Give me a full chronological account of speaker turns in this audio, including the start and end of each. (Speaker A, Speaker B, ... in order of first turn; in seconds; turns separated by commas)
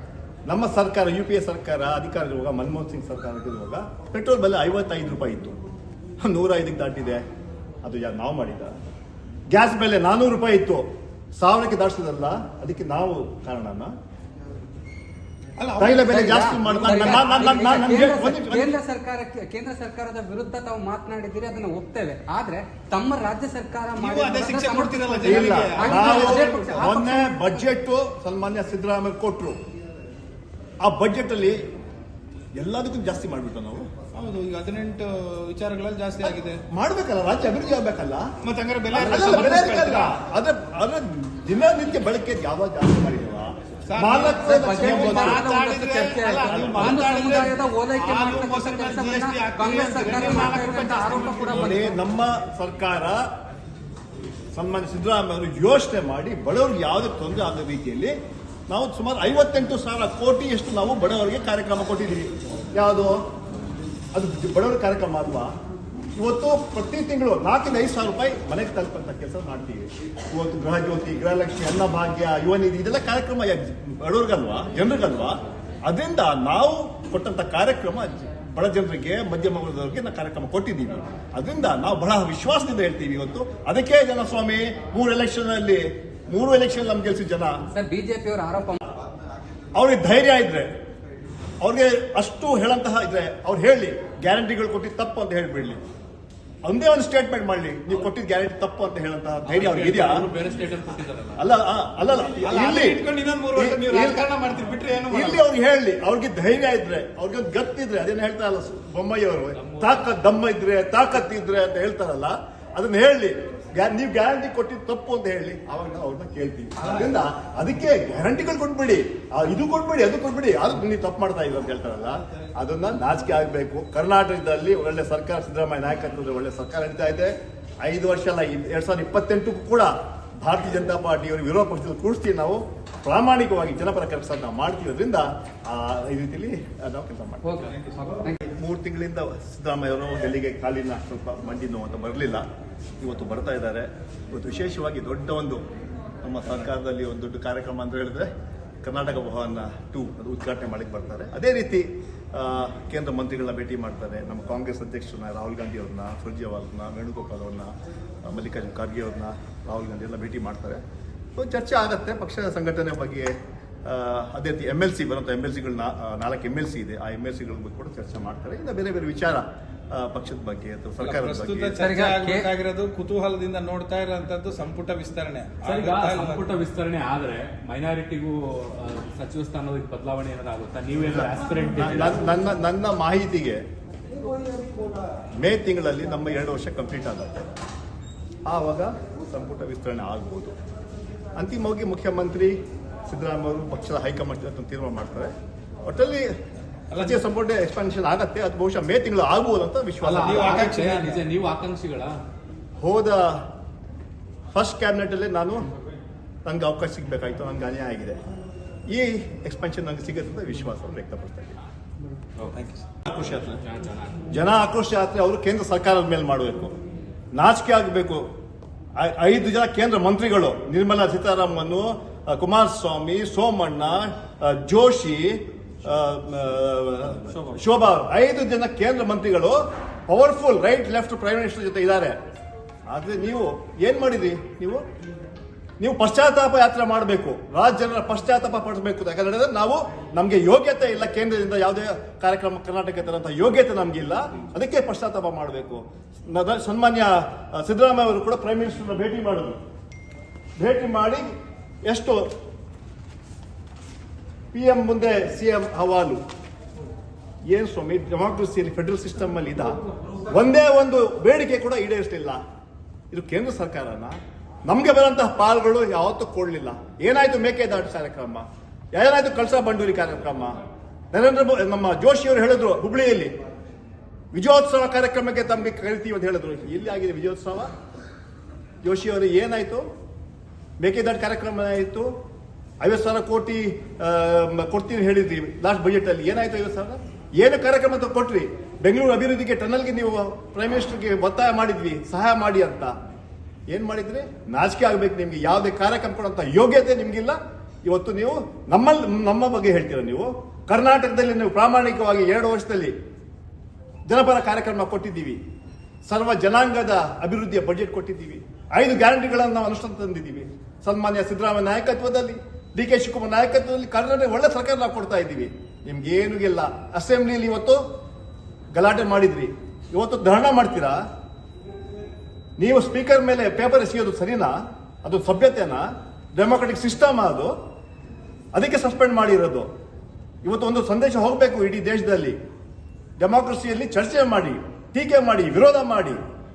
Speaker A: 0.5-5.5, Speaker A: 6.2-7.2, Speaker A: 7.8-8.7, Speaker A: 9.5-10.8, Speaker A: 11.4-13.9, Speaker B: 15.6-18.0, Speaker A: 15.8-18.8, Speaker C: 16.1-27.4, Speaker D: 16.8-17.4, Speaker B: 23.9-26.9, Speaker D: 24.9-25.6, Speaker A: 25.2-29.6, Speaker A: 30.8-31.6, Speaker A: 32.6-33.9, Speaker B: 34.1-36.6, Speaker A: 36.2-38.3, Speaker B: 38.4-40.2, Speaker A: 38.9-45.5, Speaker B: 43.9-51.9, Speaker C: 44.5-51.9, Speaker A: 46.5-47.0, Speaker A: 51.4-53.2, Speaker A: 54.5-58.1, Speaker A: 58.7-63.2, Speaker A: 64.1-65.5, Speaker A: 66.2-87.5, Speaker C: 87.7-88.8, Speaker A: 89.7-90.7, Speaker A: 91.6-95.8, Speaker A: 96.6-100.2, Speaker D: 99.5-101.5, Speaker A: 101.4-104.2, Speaker B: 102.4-105.4, Speaker A: 105.1-127.3, Speaker D: 109.5-110.1, Speaker B: 116.8-117.1, Speaker A: 127.8-137.7, Speaker C: 137.5-138.4, Speaker A: 138.4-142.4, Speaker A: 143.0-145.6, Speaker A: 146.2-148.3, Speaker A: 148.8-157.7, Speaker A: 158.2-160.8, Speaker A: 161.3-171.8, Speaker B: 171.0-176.4, Speaker D: 171.8-172.4, Speaker D: 175.6-182.2, Speaker A: 181.8-183.6, Speaker A: 185.4-187.5, Speaker A: 188.5-190.5, Speaker A: 191.3-192.6, Speaker A: 193.1-195.3, Speaker A: 195.8-196.3, Speaker B: 196.9-197.2, Speaker A: 196.9-200.5, Speaker D: 200.0-202.2, Speaker B: 200.1-201.2, Speaker A: 202.8-203.4, Speaker A: 204.5-205.7, Speaker A: 206.4-208.2, Speaker A: 208.9-211.6, Speaker B: 212.5-212.8, Speaker A: 213.1-213.6, Speaker D: 213.6-214.2, Speaker A: 214.3-216.7, Speaker A: 217.3-218.3, Speaker A: 219.0-232.2, Speaker A: 232.9-234.8, Speaker A: 235.8-249.6, Speaker A: 250.6-251.3, Speaker A: 251.8-252.3, Speaker A: 254.5-256.2, Speaker A: 257.5-259.7, Speaker A: 260.3-262.4, Speaker A: 263.1-264.1, Speaker A: 264.7-270.6, Speaker A: 271.1-273.3, Speaker A: 274.3-277.7, Speaker A: 278.8-279.9, Speaker A: 280.8-282.1, Speaker A: 282.8-292.9, Speaker A: 293.7-302.9, Speaker A: 304.1-305.4, Speaker A: 306.1-317.8, Speaker A: 318.7-321.0, Speaker A: 322.6-327.5, Speaker A: 328.5-329.7, Speaker A: 330.4-332.4, Speaker A: 333.2-336.2